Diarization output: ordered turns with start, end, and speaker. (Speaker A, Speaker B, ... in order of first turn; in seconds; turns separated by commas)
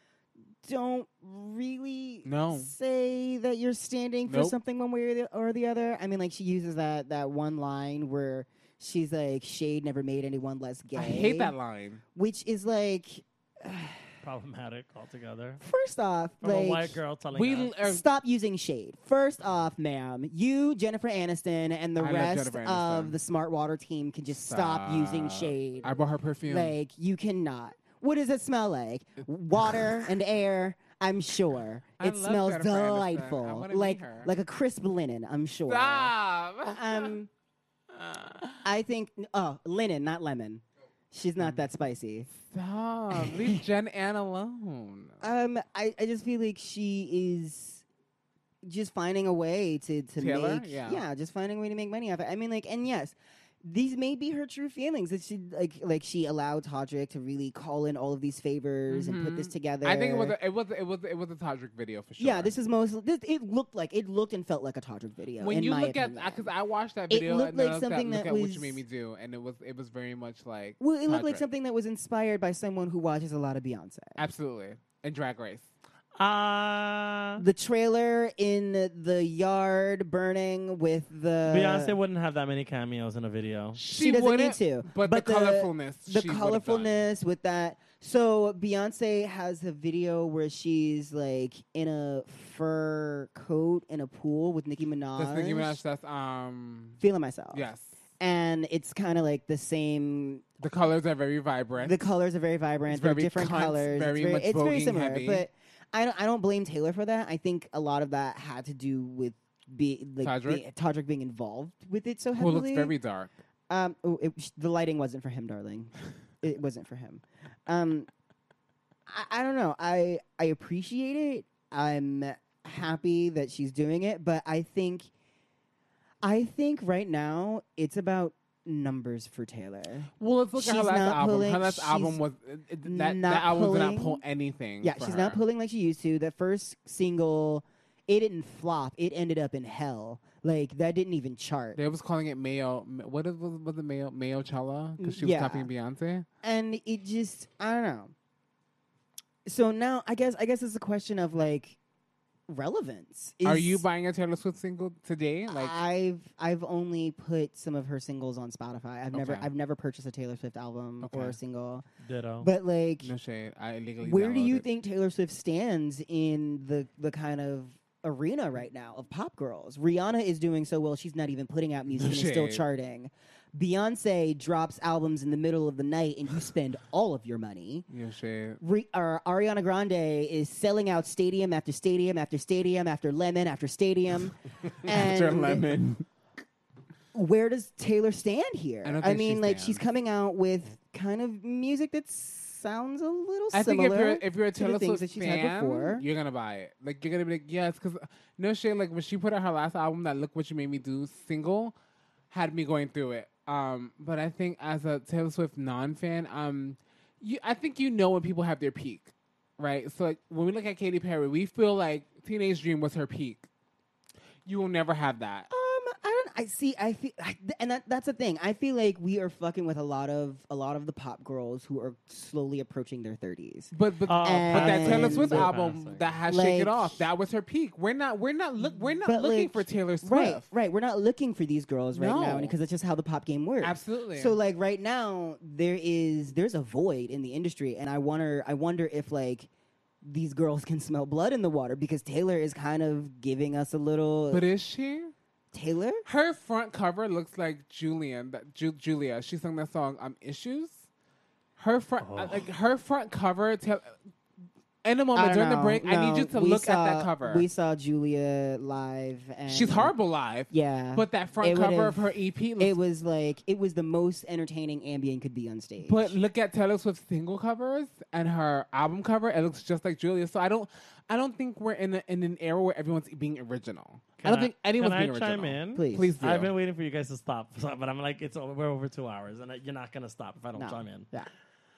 Speaker A: 0.6-11.5, Speaker B: 2.2-2.7, Speaker B: 4.3-4.6, Speaker B: 10.9-12.0, Speaker A: 12.2-14.1, Speaker C: 14.2-15.6, Speaker A: 15.6-17.0, Speaker C: 16.4-17.7, Speaker B: 17.3-18.0, Speaker A: 17.8-25.9, Speaker B: 22.0-23.2, Speaker B: 24.4-26.8, Speaker A: 26.5-36.1, Speaker B: 32.0-34.3, Speaker B: 35.7-37.1, Speaker A: 36.7-37.3, Speaker B: 37.9-38.7, Speaker A: 38.6-42.3, Speaker B: 42.3-45.3, Speaker A: 43.1-43.6, Speaker A: 45.2-47.9, Speaker A: 48.6-60.4, Speaker B: 50.2-51.0, Speaker B: 58.9-62.5, Speaker A: 62.2-66.5, Speaker B: 65.4-71.4, Speaker A: 67.1-68.8, Speaker A: 70.8-74.2, Speaker B: 74.2-75.7, Speaker C: 76.2-77.4, Speaker A: 77.4-82.0, Speaker C: 81.5-83.8, Speaker B: 83.8-87.1, Speaker A: 83.9-95.8, Speaker B: 95.2-97.0, Speaker A: 97.0-97.7, Speaker B: 97.5-98.0, Speaker A: 98.2-100.5, Speaker B: 100.6-102.0, Speaker A: 101.8-112.9, Speaker B: 102.9-105.5, Speaker B: 110.2-110.6, Speaker B: 112.3-113.3, Speaker A: 113.7-118.1, Speaker A: 119.1-125.1, Speaker A: 126.2-132.2, Speaker B: 130.2-135.4, Speaker A: 132.8-134.2, Speaker A: 134.8-141.8, Speaker B: 141.8-146.3, Speaker A: 145.0-145.7, Speaker A: 146.4-148.1, Speaker A: 149.5-151.8, Speaker A: 152.5-153.8, Speaker B: 153.4-155.8, Speaker A: 155.5-161.8, Speaker B: 159.1-159.5, Speaker B: 161.0-161.4, Speaker C: 162.0-162.5, Speaker A: 162.4-163.1, Speaker B: 163.0-164.7, Speaker A: 164.0-177.9, Speaker B: 172.0-172.7, Speaker B: 177.9-178.6, Speaker A: 178.6-185.7, Speaker B: 184.9-186.1, Speaker A: 187.1-196.1, Speaker B: 188.8-189.8, Speaker B: 193.5-201.8, Speaker B: 202.3-213.5, Speaker B: 214.5-215.5, Speaker A: 215.5-223.7, Speaker B: 223.7-230.5, Speaker C: 224.1-226.2, Speaker A: 224.2-225.5, Speaker A: 226.3-227.1, Speaker A: 229.0-239.5, Speaker B: 231.9-232.6, Speaker B: 233.6-234.4, Speaker A: 240.0-244.4, Speaker B: 244.3-245.1, Speaker A: 245.5-246.0, Speaker B: 246.1-250.9, Speaker B: 251.6-254.0, Speaker C: 252.0-252.5, Speaker B: 254.8-257.5, Speaker A: 255.2-259.9, Speaker B: 259.5-262.8, Speaker A: 260.5-266.1, Speaker B: 265.8-276.5, Speaker C: 274.2-281.1, Speaker A: 275.8-276.1, Speaker A: 280.6-281.3